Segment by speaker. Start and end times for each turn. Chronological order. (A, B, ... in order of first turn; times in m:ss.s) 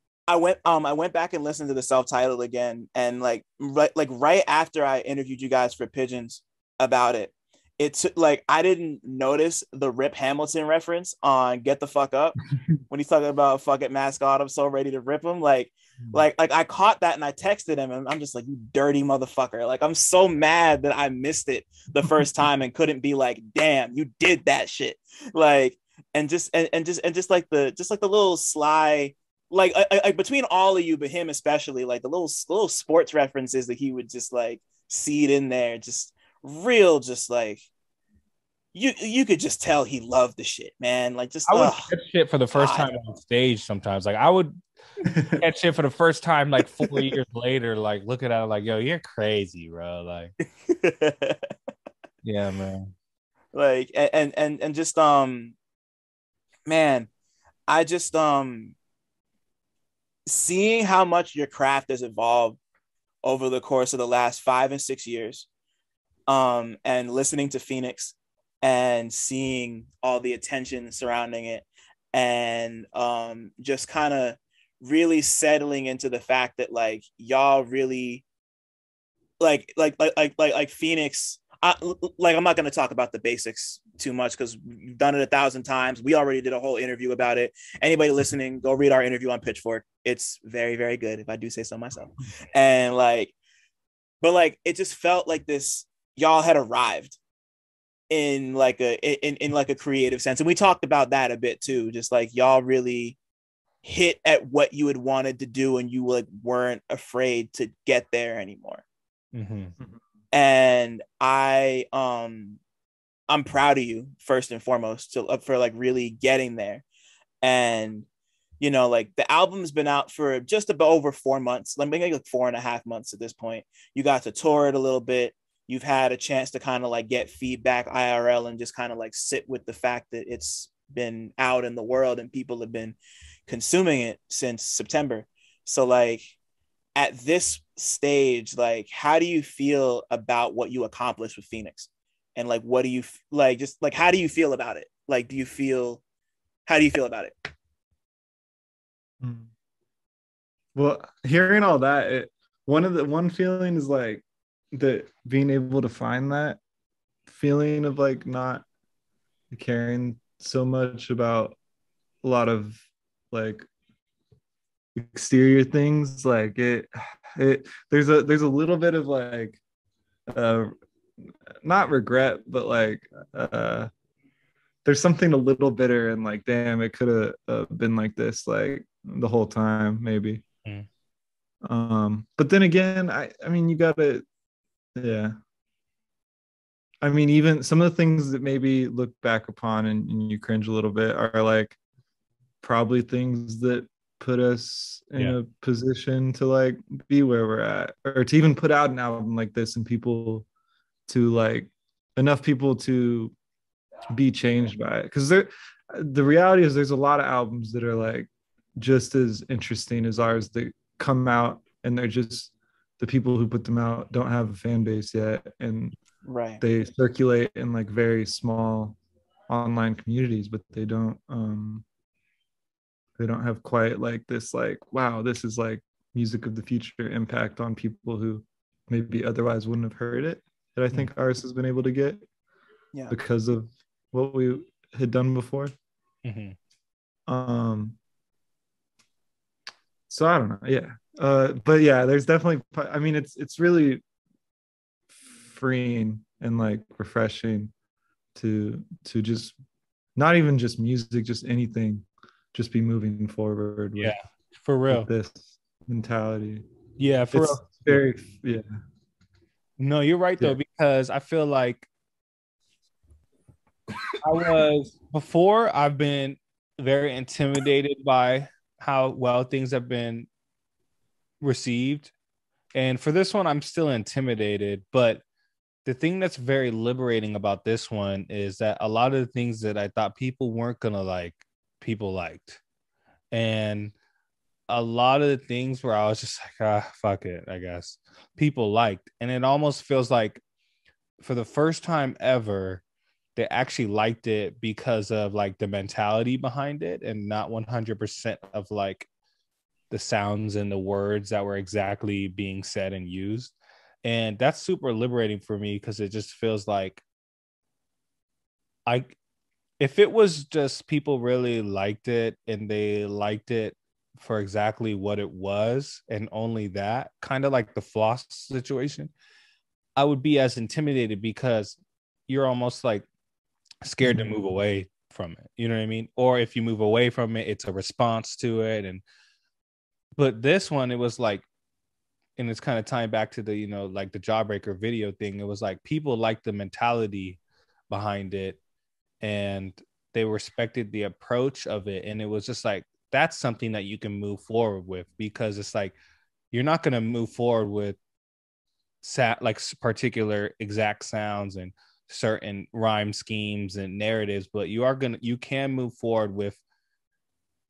0:00.3-0:37.6 A
0:38.7-0:41.9 A
0:41.5-0:44.6 B
0:42.5-0:42.9 A
0:45.0-0:45.4 C
0:45.4-0:50.3 B
0:50.6-0:51.5 A
0:52.2-0:52.9 B
0:53.5-0:55.6 A
0:56.7-0:57.1 A
0:57.7-0:58.8 A
1:00.3-1:02.6 A
1:03.2-1:05.5 A
1:06.3-1:18.2 A
1:19.4-1:33.3 A
1:34.2-1:37.2 A
1:38.1-1:43.2 A
1:43.8-1:48.8 A
1:49.3-1:49.7 B
1:50.3-1:52.6 A
1:53.3-1:56.8 A
1:57.4-1:58.1 A
1:58.6-2:16.3 A
2:17.0-2:26.0 A
2:26.6-2:27.5 A
2:29.2-2:29.5 C
2:30.7-2:36.6 C
2:37.3-2:38.6 C
2:39.5-2:41.6 C
2:42.2-2:43.6 C
2:44.9-2:49.6 C
2:50.3-2:50.7 C
2:51.3-2:53.9 C
2:54.8-3:00.4 C
3:01.6-3:04.2 C
3:05.0-3:05.3 C
3:07.0-3:11.8 C
3:12.6-3:20.4 C
3:21.1-3:23.3 C
3:24.1-3:36.0 C
3:36.2-3:36.6 A
3:36.6-3:39.0 C
3:39.5-3:41.8 C
3:43.2-3:52.2 C
3:53.1-3:55.7 C
3:56.2-3:56.6 B
3:57.3-3:58.0 C
4:00.1-4:04.0 C
4:05.1-4:07.7 C
4:08.3-4:09.5 C
4:10.2-4:14.1 C
4:14.0-4:15.1 B
4:14.9-4:16.6 C
4:17.0-4:18.0 B
4:17.3-4:18.6 C
4:19.8-4:21.9 B
4:24.2-4:30.3 B
4:31.4-4:32.1 B
4:32.7-4:35.2 B
4:35.8-4:42.6 B
4:43.3-4:43.9 B
4:44.7-4:50.4 B
4:51.2-4:52.8 B
4:53.4-4:59.1 B
4:59.9-5:07.0 B
5:08.8-5:09.2 B
5:09.8-5:19.1 B
5:20.0-5:23.0 B
5:23.8-5:29.0 B
5:24.0-5:24.3 C
5:30.2-5:31.4 B
5:32.4-5:37.4 B
5:37.9-5:38.6 B
5:39.2-5:45.9 B
5:46.5-5:48.0 B
5:49.0-5:56.6 B